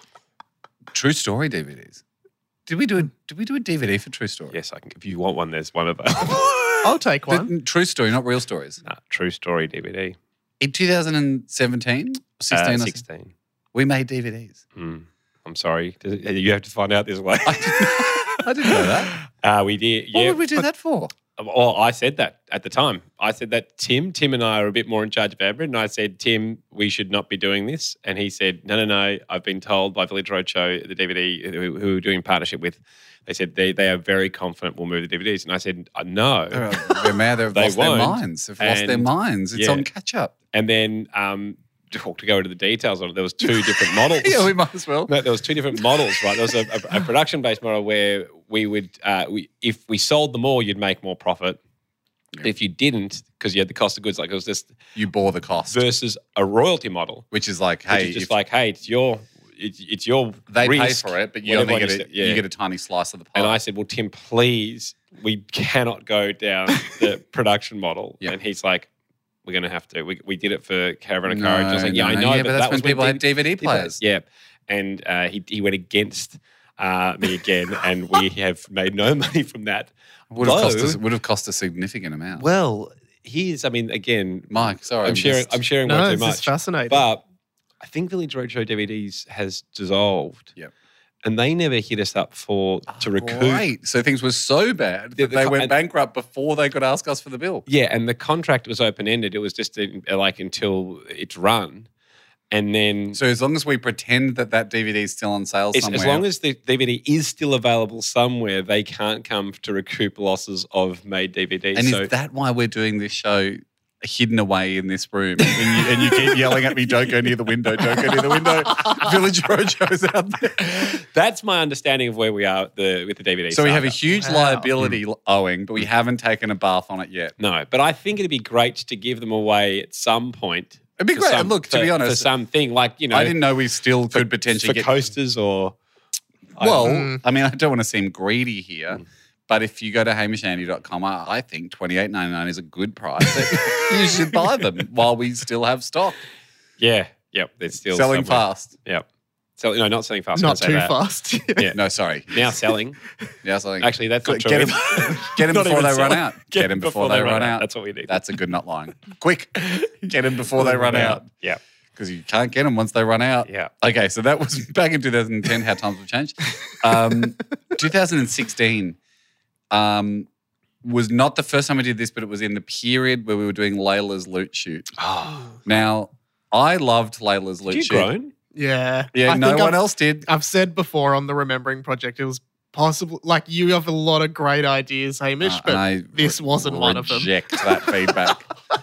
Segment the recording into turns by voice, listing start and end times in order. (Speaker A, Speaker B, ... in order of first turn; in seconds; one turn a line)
Speaker A: 0.9-2.0
Speaker A: 2.7-4.5
Speaker B: 4.5-7.0
Speaker C: 6.8-7.5
Speaker A: 7.3-8.8
Speaker B: 8.8-10.2
Speaker A: 10.6-13.0
Speaker B: 12.5-13.3
Speaker A: 13.7-14.6
Speaker B: 14.7-20.6
Speaker A: 17.4-19.1
Speaker A: 20.1-21.1
Speaker B: 21.4-36.7
Speaker A: 36.5-40.3
Speaker B: 37.5-39.9
Speaker B: 40.5-44.5
Speaker A: 43.5-45.1
Speaker B: 45.1-51.6
Speaker A: 45.7-46.5
Speaker B: 52.4-54.7
Speaker A: 54.9-55.8
Speaker B: 55.7-57.2
Speaker A: 57.3-58.3
Speaker B: 57.9-62.4
Speaker A: 60.5-63.6
Speaker B: 63.3-68.9
Speaker B: 69.4-81.0
Speaker A: 71.2-74.0
Speaker A: 80.3-82.5
Speaker B: 82.3-87.2
Speaker A: 84.5-85.6
Speaker C: 85.8-87.1
Speaker B: 87.8-90.5
Speaker B: 91.2-93.6
Speaker A: 92.9-97.7
Speaker B: 95.2-95.7
Speaker B: 97.7-101.9
Speaker B: 102.5-103.2
Speaker A: 103.1-106.2
Speaker B: 105.7-112.1
Speaker A: 111.7-121.0
Speaker B: 120.6-124.2
Speaker A: 123.5-127.3
Speaker C: 124.2-124.7
Speaker B: 127.4-133.4
Speaker A: 131.0-132.3
Speaker A: 133.1-135.0
Speaker B: 134.1-135.7
Speaker A: 136.6-146.2
Speaker C: 136.6-137.2
Speaker B: 146.8-149.0
Speaker A: 147.9-148.8
Speaker B: 149.6-151.0
Speaker C: 150.3-151.7
Speaker A: 151.7-152.5
Speaker B: 152.3-153.0
Speaker A: 153.4-161.3
Speaker B: 153.8-158.2
Speaker B: 160.6-161.6
Speaker A: 161.9-169.0
Speaker B: 163.4-163.7
Speaker A: 169.7-170.3
Speaker A: 170.8-175.0
Speaker B: 175.0-175.5
Speaker A: 175.6-178.1
Speaker B: 177.7-178.3
Speaker C: 178.5-188.1
Speaker A: 179.1-180.3
Speaker A: 185.4-188.5